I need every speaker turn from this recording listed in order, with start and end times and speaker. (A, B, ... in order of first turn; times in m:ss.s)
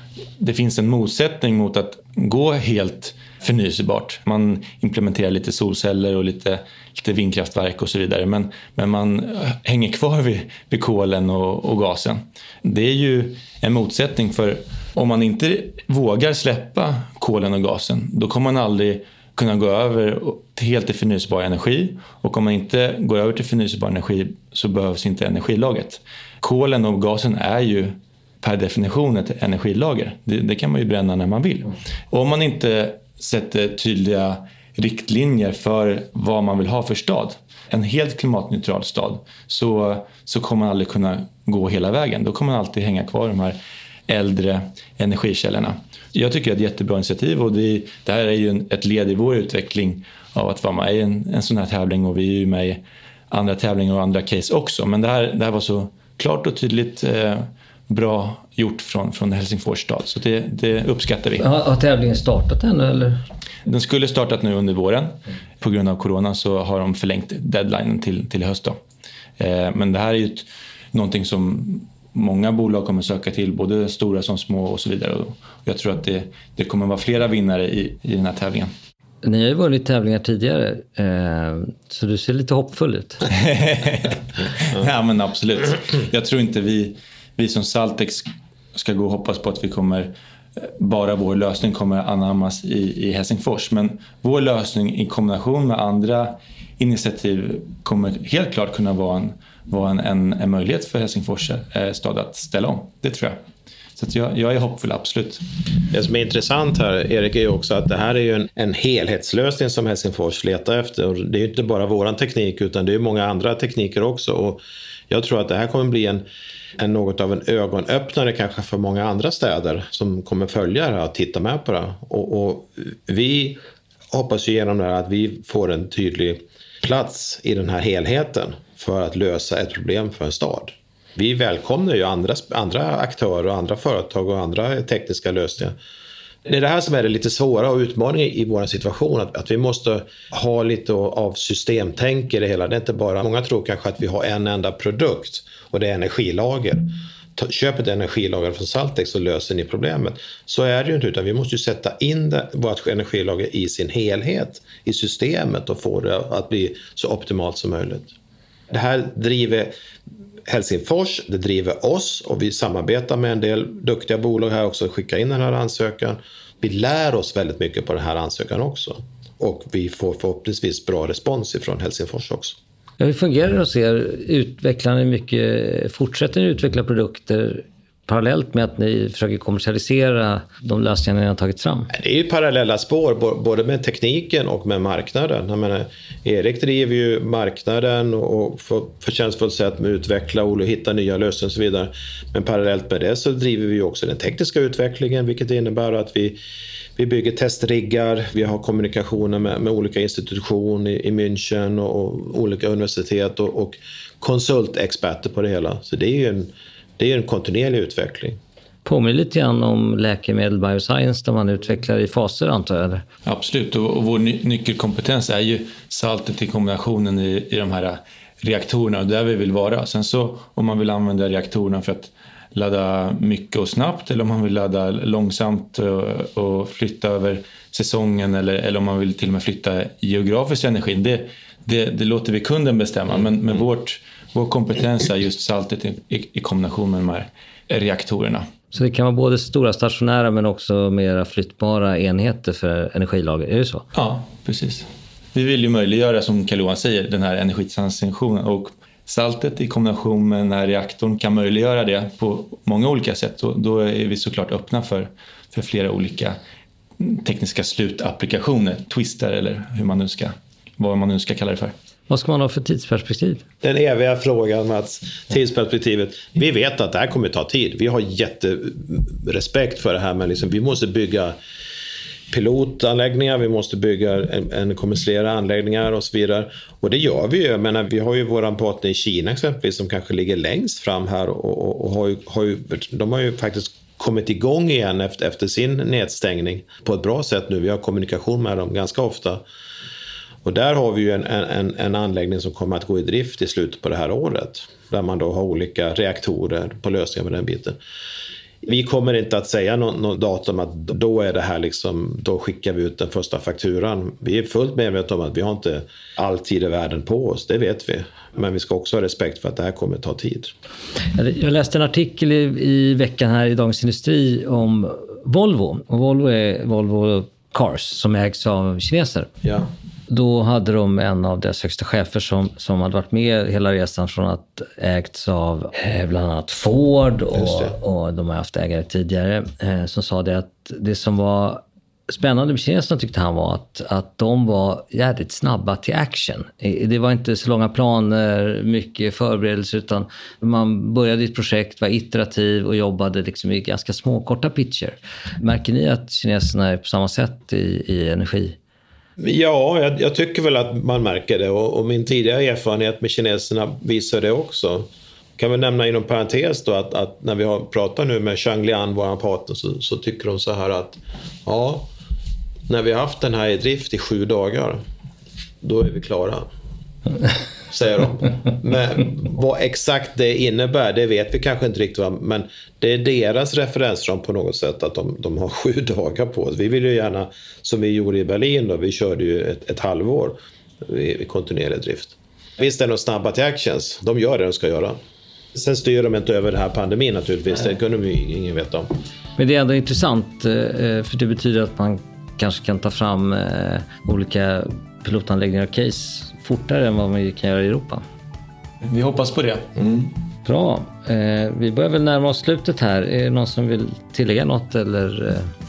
0:00.4-0:43.6 A
0:44.1-1:01.4 A
1:01.4-1:03.2 B
1:03.6-1:08.8 A
1:09.4-1:18.7 A
1:19.2-1:23.2 B
1:23.3-1:43.4 A
1:44.0-1:45.4 A
1:45.9-1:56.2 C
1:56.8-2:03.6 C
2:04.1-2:15.8 C
2:16.4-2:38.1 C
2:38.7-2:39.7 C
2:40.5-2:52.6 C
2:53.0-3:01.9 B
3:01.9-3:16.4 C
3:17.0-3:28.4 C
3:28.8-3:33.0 B
3:33.2-3:58.4 A
3:58.7-4:03.9 B
4:03.9-4:16.4 A
4:17.0-4:21.7 A
4:22.1-4:23.4 B
4:23.6-4:31.4 C
4:32.3-4:49.4 C
4:50.4-4:57.8 C
4:58.6-5:10.5 C
5:11.2-5:19.3 B
5:20.1-5:48.6 B
5:27.3-5:27.7 C
5:49.2-5:54.9 C
5:55.4-6:01.9 C
6:02.7-6:04.8 C
6:05.6-6:06.5 C
6:07.7-6:25.0 C
6:25.6-6:28.9 C
6:29.4-6:38.0 B
6:38.8-6:40.1 A
6:40.4-6:45.5 B